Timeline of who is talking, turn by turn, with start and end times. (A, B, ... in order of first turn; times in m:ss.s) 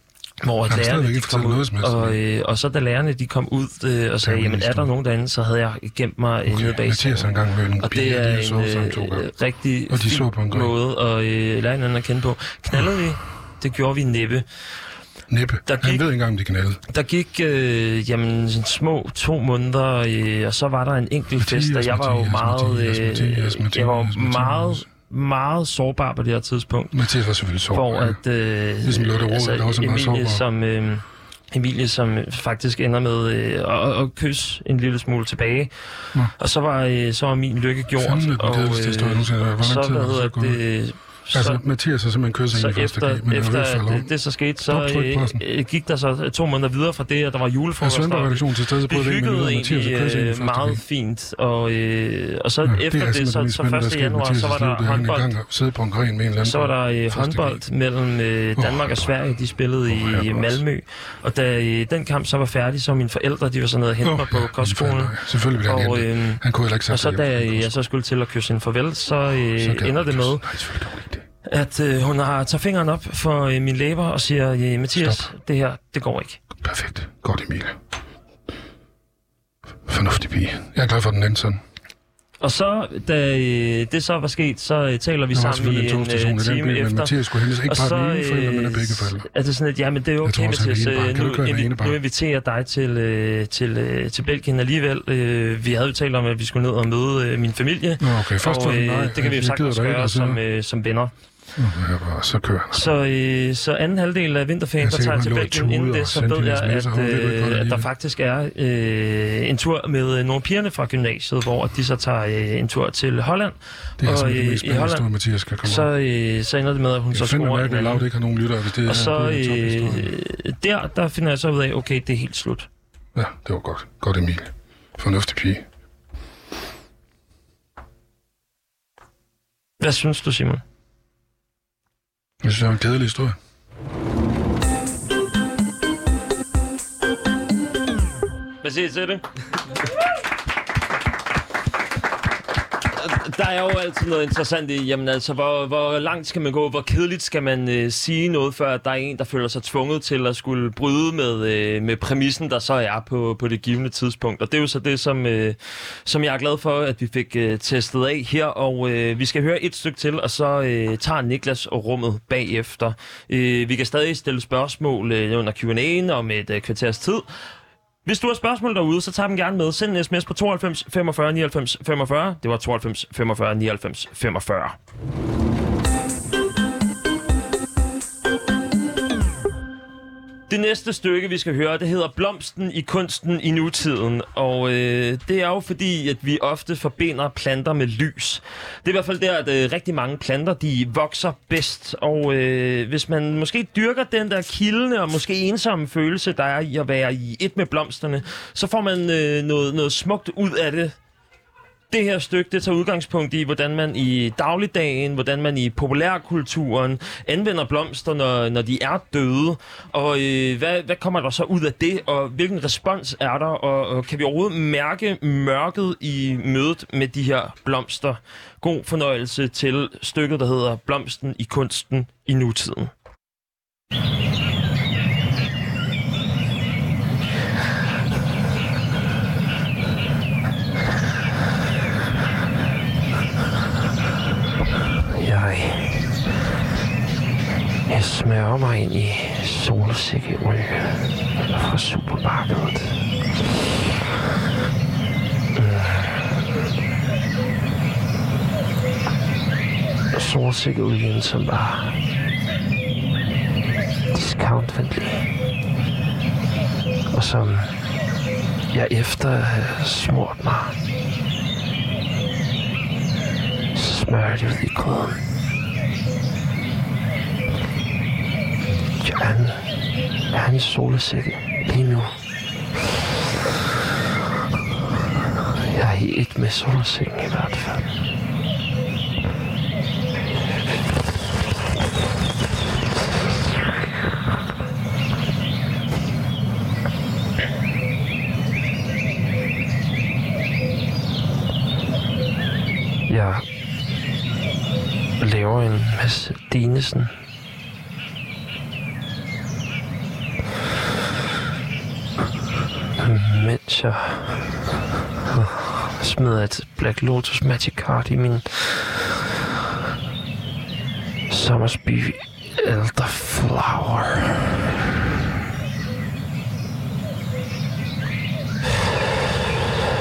0:00.4-0:14.4 A
0:00.7-0:02.2 B
0:04.2-0:04.9 B
0:06.5-0:09.3 B
0:09.9-0:10.7 B
0:15.3-0:16.8 B
0:15.7-0:16.0 A
0:16.9-0:55.3 A
0:21.4-0:24.9 B
0:26.9-0:30.4 B
0:38.0-0:45.4 B
0:47.8-0:50.8 B
0:52.6-0:57.7 B
0:56.4-1:10.8 A
0:58.6-1:00.6 B
1:04.0-1:07.8 B
1:09.4-1:11.3 B
1:11.5-1:16.4 A
1:15.0-1:15.3 B
1:16.6-1:17.8 B
1:19.9-1:21.6 B
1:22.4-1:41.1 A
1:25.3-1:29.3 B
1:30.2-1:32.0 B
1:38.0-1:40.4 B
1:41.6-1:42.9 B
1:42.7-1:55.1 A
1:44.8-1:47.9 B
1:54.0-1:55.9 B
1:55.6-1:58.1 A
1:57.1-2:00.1 B
1:58.8-2:02.7 A
2:03.2-2:05.7 B
2:09.8-2:10.6 A
2:12.4-2:13.4 B
2:18.6-2:19.2 A
2:23.0-2:47.3 A
2:48.0-2:54.8 A
3:00.5-3:21.0 A
3:21.9-3:42.9 A
3:55.2-3:56.0 A
3:57.9-4:03.0 A
4:05.6-4:06.3 A
4:10.1-4:12.0 A
4:14.1-4:15.3 A
4:17.1-4:17.7 A
4:18.7-4:20.7 A
4:23.8-4:25.2 A
4:29.0-4:29.7 A
4:30.3-4:32.1 A
4:35.7-4:37.9 A
4:53.1-4:53.4 A
4:55.2-4:57.1 A
5:03.0-5:04.6 A
5:05.3-5:09.1 A
5:11.3-5:14.5 A